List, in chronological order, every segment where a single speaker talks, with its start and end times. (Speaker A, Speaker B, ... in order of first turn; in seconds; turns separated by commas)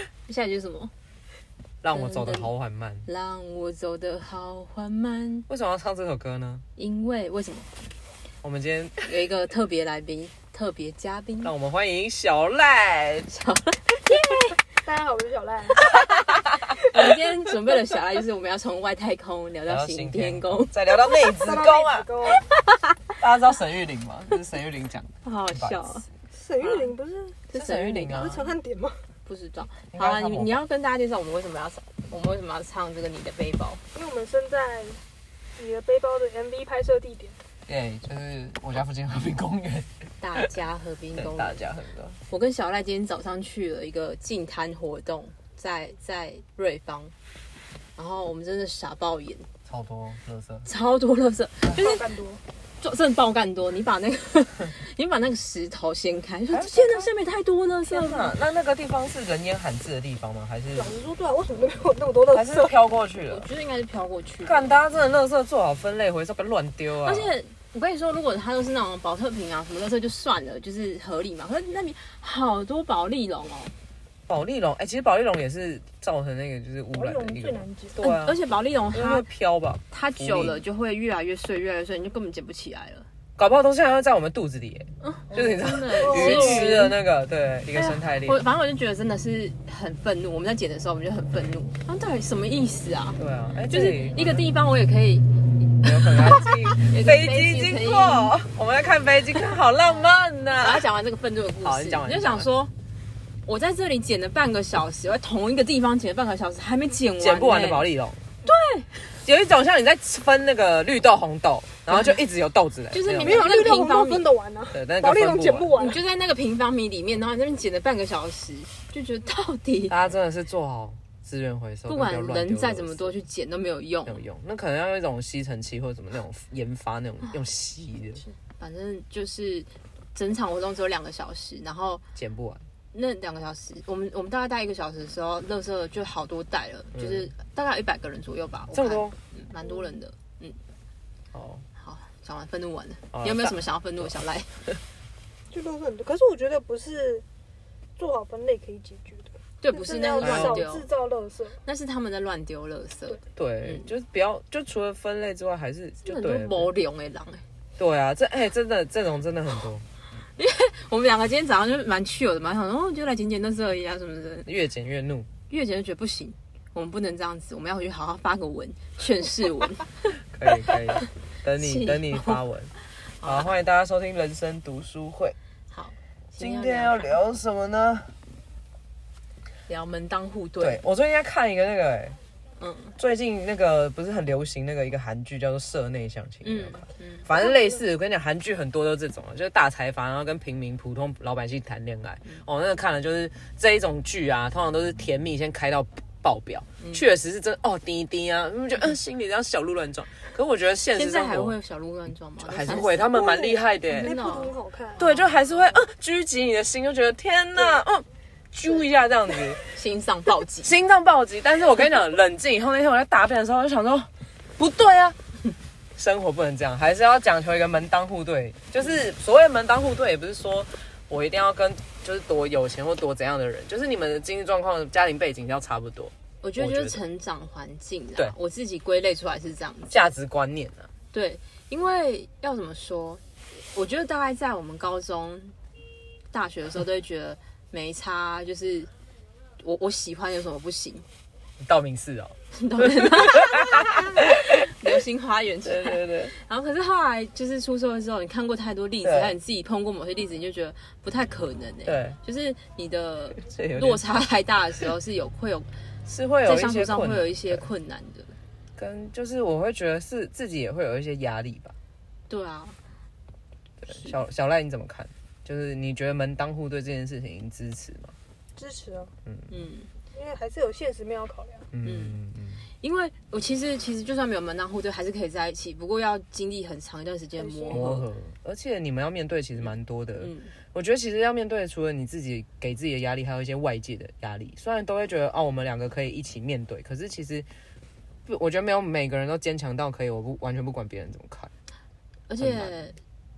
Speaker A: 0.3-0.9, Speaker B: 1.8-3.0, Speaker A: 1.9-2.5, Speaker A: 3.0-5.5, Speaker B: 5.5-6.6, Speaker A: 6.8-7.7, Speaker B: 8.4-9.0, Speaker A: 9.0-11.5, Speaker B: 11.4-13.3, Speaker A: 13.3-14.6, Speaker C: 14.8-15.9, Speaker B: 15.9-17.1, Speaker A: 16.7-20.8, Speaker B: 19.7-22.1, Speaker C: 21.2-22.5, Speaker A: 22.3-22.9, Speaker B: 23.2-25.8, Speaker A: 25.2-26.1, Speaker C: 26.3-29.0, Speaker A: 27.5-28.3, Speaker B: 27.5-28.5, Speaker A: 29.2-33.8, Speaker B: 29.9-30.6, Speaker C: 33.9-35.0, Speaker C: 35.6-37.4, Speaker B: 37.7-40.4, Speaker A: 40.2-41.6, Speaker B: 41.1-42.2, Speaker A: 42.3-47.1, Speaker A: 48.0-49.5, Speaker B: 49.7-50.7, Speaker A: 50.6-52.0, Speaker C: 51.7-52.4, Speaker A: 52.8-58.3, Speaker B: 56.5-57.1, Speaker B: 57.9-60.9, Speaker C: 60.7-62.7, Speaker B: 62.3-63.4, Speaker A: 63.3-64.7, Speaker B: 64.4-67.3, Speaker A: 67.0-73.7, Speaker B: 74.3-78.4, Speaker C: 76.9-78.0, Speaker A: 78.0-79.3, Speaker B: 78.9-80.6, Speaker A: 79.9-83.1, Speaker B: 83.4-88.4, Speaker A: 85.0-86.9, Speaker C: 86.0-86.8, Speaker A: 87.7-98.3, Speaker B: 93.2-94.4, Speaker B: 95.8-100.8, Speaker A: 100.6-102.7, Speaker B: 101.6-102.5, Speaker A: 103.4-107.9, Speaker B: 107.2-108.2, Speaker A: 108.4-109.0, Speaker B: 109.2-113.6, Speaker A: 112.9-114.3, Speaker C: 113.2-116.0, Speaker B: 114.7-115.8, Speaker A: 115.8-120.0, Speaker B: 119.9-123.1, Speaker A: 121.9-124.2, Speaker B: 124.0-128.2, Speaker A: 128.6-132.0, Speaker B: 132.1-132.7, Speaker A: 132.9-140.6, Speaker B: 136.9-137.3, Speaker B: 138.7-139.2, Speaker B: 141.3-141.7, Speaker A: 141.8-144.6, Speaker B: 143.1-144.1, Speaker C: 145.5-147.2, Speaker C: 148.0-151.6, Speaker A: 149.6-150.9, Speaker B: 150.2-150.7, Speaker A: 151.6-153.8, Speaker B: 153.3-156.7, Speaker A: 156.0-157.4, Speaker B: 157.8-159.8, Speaker A: 160.4-164.5, Speaker B: 164.4-165.3, Speaker A: 165.5-170.1, Speaker B: 170.3-172.7, Speaker A: 170.7-171.0, Speaker A: 171.6-172.4, Speaker A: 173.2-173.5, Speaker B: 173.2-175.3, Speaker A: 175.7-177.2, Speaker B: 176.4-178.1, Speaker A: 179.7-180.8, Speaker B: 180.6-182.2, Speaker A: 182.6-182.9, Speaker B: 183.0-201.6, Speaker A: 186.4-187.3, Speaker C: 187.3-187.8, Speaker A: 200.9-203.2, Speaker B: 202.4-204.2, Speaker C: 203.1-205.1, Speaker A: 203.9-205.8, Speaker B: 205.0-209.6, Speaker A: 209.7-210.7, Speaker B: 210.6-215.2, Speaker B: 215.9-227.0, Speaker A: 226.4-230.1, Speaker B: 229.9-230.9, Speaker A: 231.1-235.6, Speaker A: 236.3-238.9, Speaker A: 239.6-241.0, Speaker B: 241.6-244.9, Speaker A: 242.5-255.7, Speaker B: 245.6-246.3, Speaker B: 249.0-249.3, Speaker B: 251.8-252.2, Speaker B: 253.4-254.0, Speaker B: 256.1-257.6, Speaker A: 256.4-258.3, Speaker B: 258.8-261.7, Speaker A: 262.3-262.8, Speaker B: 263.8-268.1, Speaker C: 268.6-269.1, Speaker A: 269.5-269.9, Speaker C: 270.1-271.7, Speaker B: 271.7-272.6, Speaker A: 271.8-272.2, Speaker A: 272.8-278.1, Speaker C: 277.4-277.9, Speaker B: 277.7-287.5, Speaker A: 280.2-280.6, Speaker B: 288.2-291.5, Speaker A: 292.3-293.0, Speaker B: 292.4-292.8